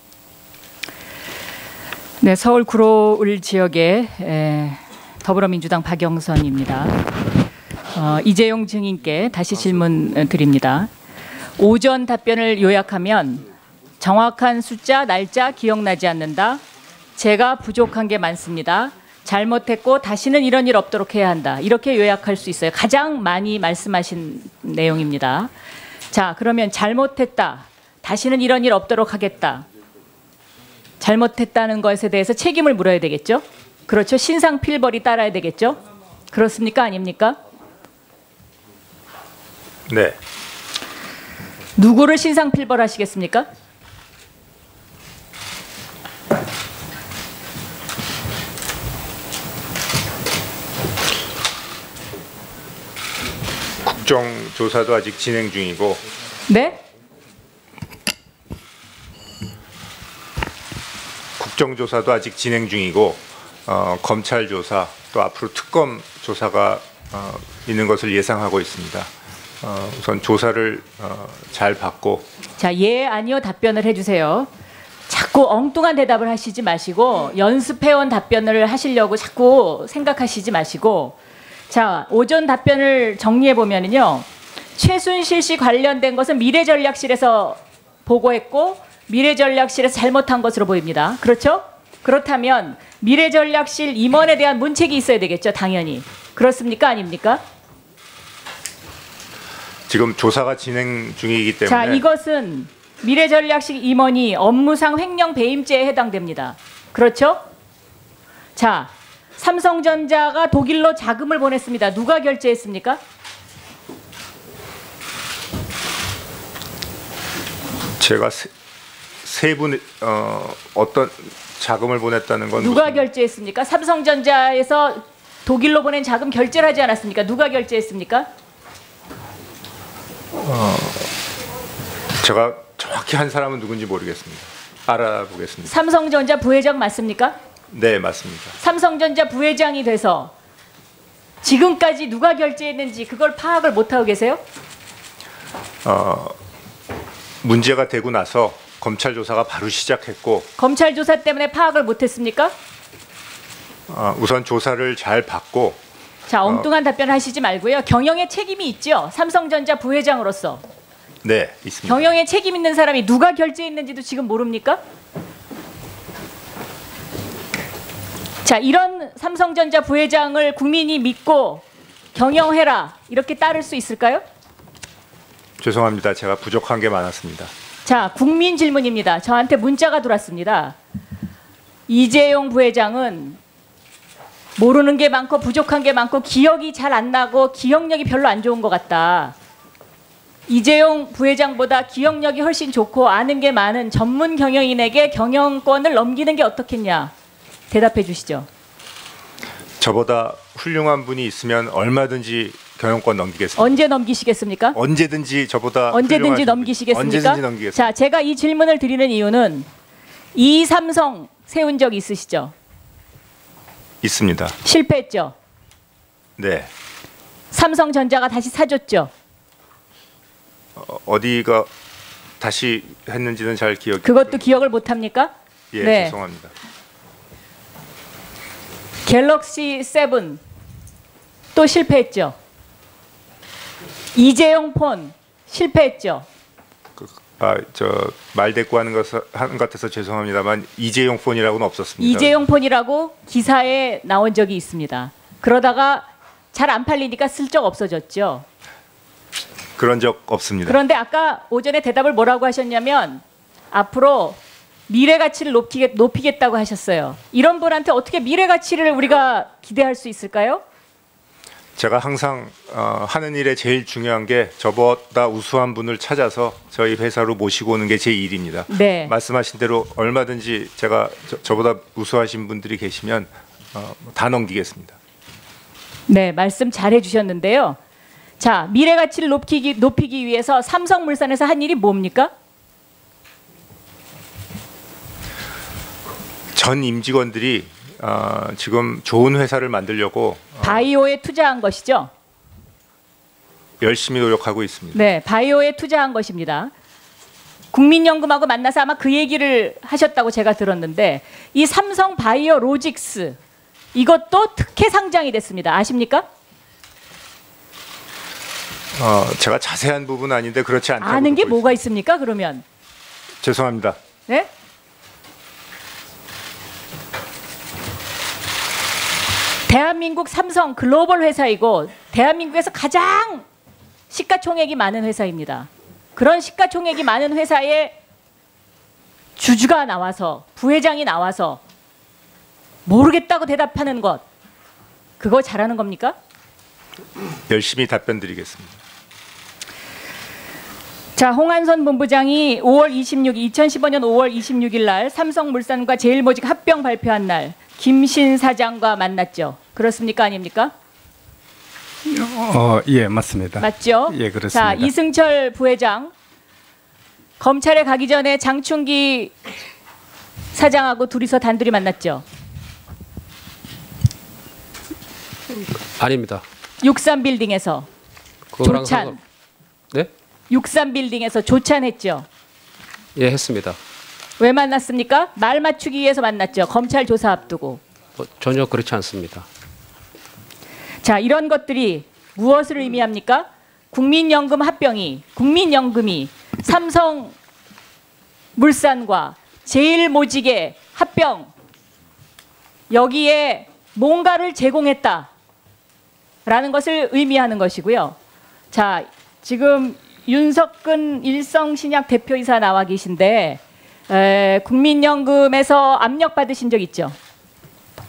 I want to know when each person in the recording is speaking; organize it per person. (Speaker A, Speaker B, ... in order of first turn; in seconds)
Speaker A: 2.2-7.0, 7.9-10.9, 11.6-13.4, 14.0-16.6, 17.2-25.5, 26.1-29.6, 31.0-35.8, 36.3-37.4, 41.8-43.5, 56.5-56.8, 72.6-74.5, 75.1-81.2, 81.7-97.4, 101.7-107.4, 108.5-113.0, 122.6-128.3, 135.7-137.3, 138.6-140.3, 141.4-144.4, 150.6-152.5, 156.3-160.6, 161.9-164.8, 168.4-171.6, 172.2-174.2, 177.9-180.8, 181.9-183.4, 184.6-189.3, 190.5-197.1, 197.7-198.5, 203.6-204.8, 205.9-209.7, 210.3-212.5, 214.6-215.3, 217.5-219.1, 224.0-226.2, 229.1-230.4, 231.6-232.3, 234.2-236.2, 242.0-248.4, 250.7-260.6, 268.7-269.1, 276.1-277.8, 278.4-282.3, 290.6-292.1, 294.9-296.7, 297.7-303.4, 303.9-306.2, 311.0-312.6, 319.7-323.4, 324.1-327.9, 329.4-331.6, 332.9-334.2, 335.2-336.1, 341.1-350.7, 353.6-356.1, 357.4-359.3, 360.5-362.2, 366.8-367.9, 368.6-369.2, 370.5-372.2, 374.4-377.8, 381.0-387.3, 388.6-391.5, 392.9-395.3, 396.4-398.1, 398.7-407.1
Speaker B: 39.9-40.2, 53.8-56.0, 61.4-69.1, 69.6-72.3, 99.9-102.0, 118.0-118.5, 119.2-123.0, 130.4-131.1, 132.2-135.7, 137.7-138.6, 145.8-146.4, 147.4-150.5, 153.9-155.8, 161.2-162.1, 175.6-177.5, 199.8-203.8, 204.8-207.8, 214.0-214.6, 216.4-216.7, 220.8-221.7, 222.4-224.4, 225.7-226.5, 237.0-242.4, 249.8-250.8, 261.8-275.0, 286.5-290.8, 293.8-295.0, 308.9-311.8, 313.4-314.0, 337.5-338.7
Speaker C: 352.0-354.8
Speaker D: 366.0-366.4, 368.5-369.2, 373.1-373.8, 378.2-379.4